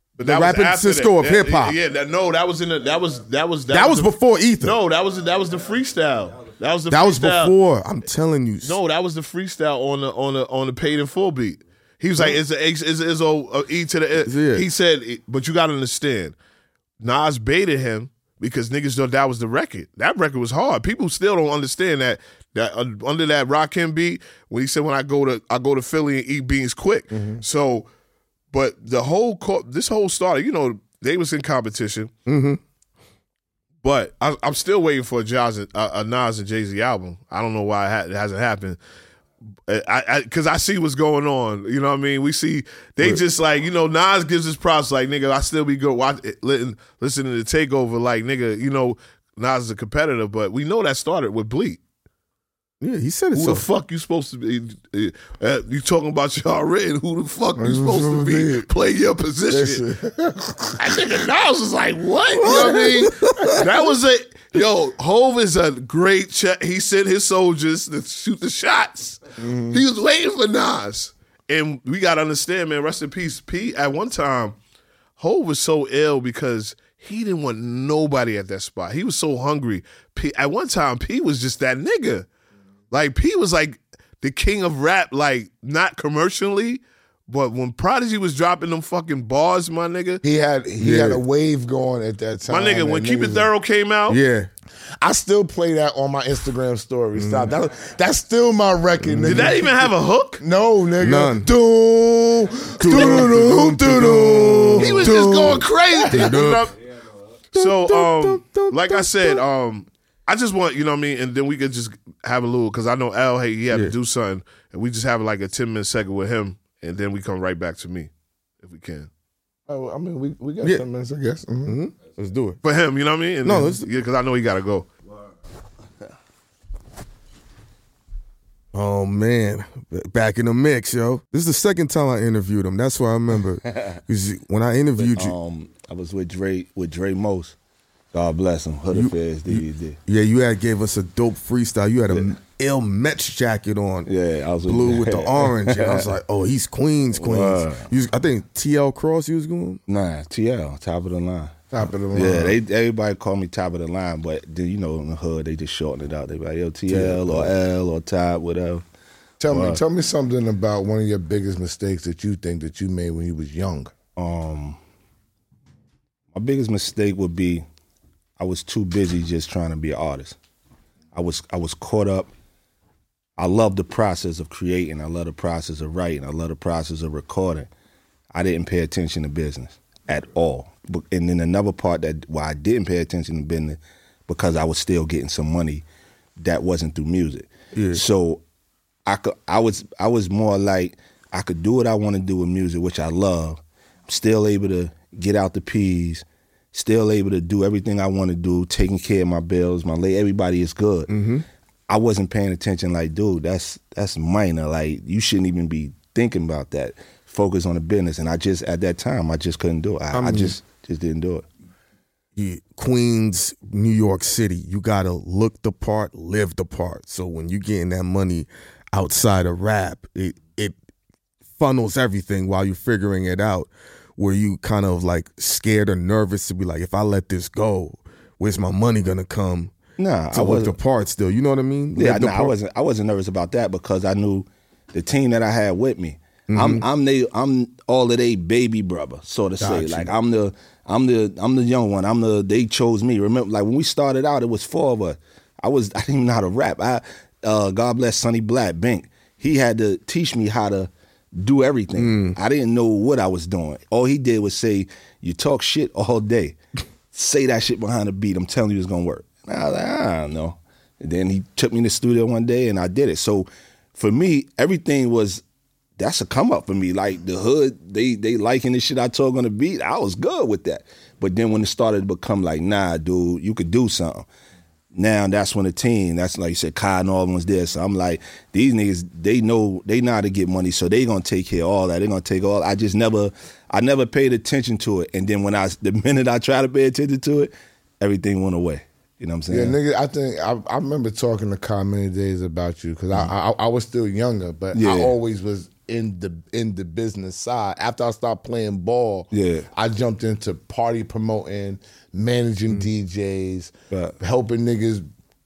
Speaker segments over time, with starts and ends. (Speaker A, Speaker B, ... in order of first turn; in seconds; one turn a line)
Speaker A: 0.2-7.5
Speaker B: 0.2-1.8
Speaker B: 3.7-4.8
Speaker B: 6.9-8.8
Speaker A: 8.6-16.3
Speaker B: 14.2-14.7
Speaker A: 17.0-27.9
Speaker C: 27.1-27.4
Speaker A: 28.5-32.1
Speaker B: 32.3-32.6
Speaker A: 33.8-38.8
Speaker A: 39.6-51.8
Speaker B: 52.8-53.6
Speaker A: 53.3-59.8
Speaker C: 57.6-58.7
Speaker C: 59.5-60.8
Speaker A: 60.7-74.5
Speaker B: 62.4-63.6
Speaker C: 62.4-63.5
Speaker C: 69.4-69.8
Speaker A: 75.2-82.3
Speaker A: 82.9-90.2
Speaker C: 90.2-93.5
Speaker B: 90.8-91.2
Speaker A: 92.5-94.2
Speaker B: 94.1-94.5
Speaker C: 95.0-99.6
Speaker B: 97.2-97.5
Speaker B: 99.0-99.8
Speaker A: 99.3-100.4
Speaker C: 100.4-106.4
Speaker B: 101.0-101.5
Speaker B: 102.8-105.5
Speaker A: 102.9-103.3
Speaker A: 104.8-106.8
Speaker B: 106.1-106.7
Speaker B: 107.5-109.4
Speaker A: 107.5-119.1
Speaker C: 119.7-121.8
Speaker B: 121.6-122.6
Speaker A: 122.6-124.9
Speaker B: 123.4-123.9
Speaker B: 128.7-135.3
Speaker D: 133.7-134.0
Speaker D: 135.0-137.6
Speaker D: 138.1-140.0
Speaker B: 138.9-144.1
Speaker D: 144.1-146.1
Speaker B: 144.6-149.8
Speaker D: 147.2-147.9
Speaker D: 149.9-151.6
Speaker C: 151.7-152.6
Speaker D: 152.1-158.8
Speaker B: 156.9-157.5
Speaker C: 159.4-163.9
Speaker D: 159.5-159.8
Speaker D: 164.2-164.8
Speaker D: 166.3-167.7
Speaker D: 168.4-170.4
Speaker D: 171.1-172.3
Speaker D: 173.4-177.7
Speaker D: 178.3-185.8
Speaker D: 186.4-188.4
Speaker B: 187.7-188.0
Speaker D: 189.1-201.1
Speaker B: 201.1-201.4
Speaker D: 201.9-211.4
Speaker B: 210.1-210.6
Speaker B: 212.4-220.8
Speaker B: 221.6-229.7
Speaker D: 230.0-230.7
Speaker B: 230.3-232.5
Speaker D: 231.9-256.6
Speaker B: 236.5-236.8
Speaker B: 239.6-240.1
Speaker B: 251.9-252.4
Speaker D: 257.1-265.4
Speaker D: 266.0-274.3
Speaker D: 274.9-289.8
Speaker C: 289.5-305.0
Speaker D: 294.7-295.1
Speaker D: 299.3-299.7